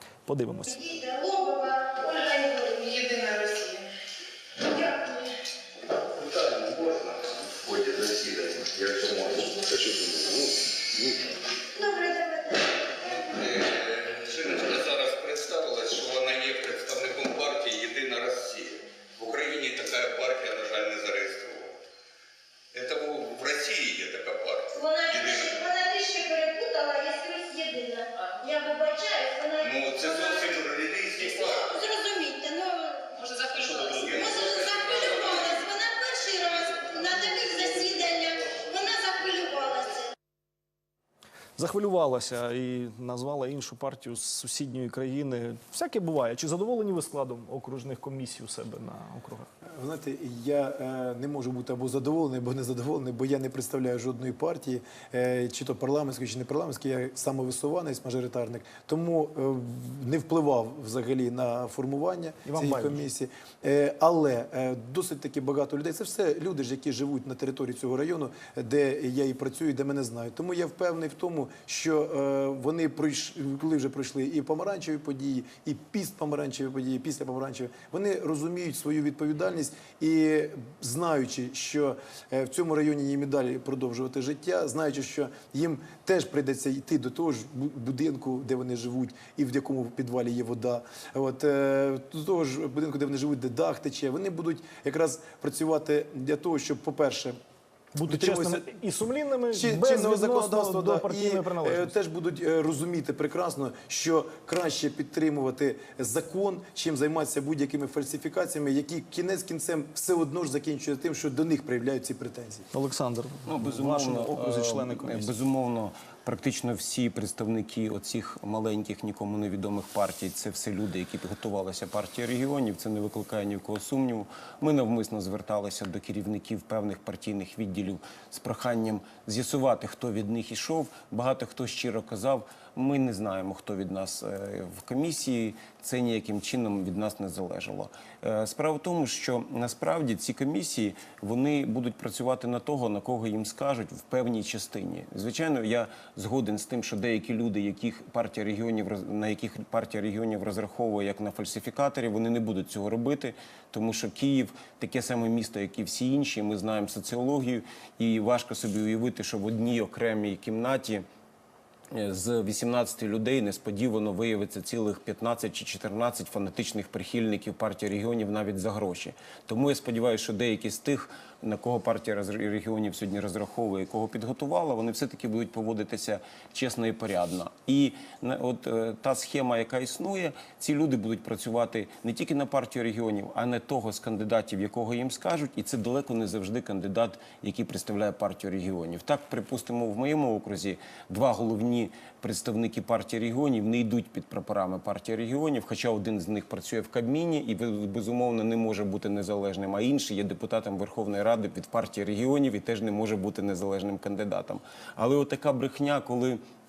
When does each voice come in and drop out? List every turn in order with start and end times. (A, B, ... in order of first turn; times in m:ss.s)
0:00.3-0:01.0 A
0:01.1-0:03.8 B
0:06.2-0:11.3 C
0:11.8-0:12.6 B
0:13.0-0:21.8 C
0:22.7-0:25.7 C
0:24.8-0:29.6 B
0:29.6-0:31.8 C
0:31.7-0:33.0 B
0:33.3-0:35.6 C
0:34.5-0:40.0 B
0:36.6-0:38.2 C
0:41.6-0:49.5 A
0:49.6-1:37.4 D
1:02.4-1:03.0 A
1:38.0-1:42.0 A
1:38.0-1:38.7 D
1:39.5-1:52.7 D
1:52.7-1:55.3 A
1:53.5-2:41.0 E
2:41.9-3:26.4 E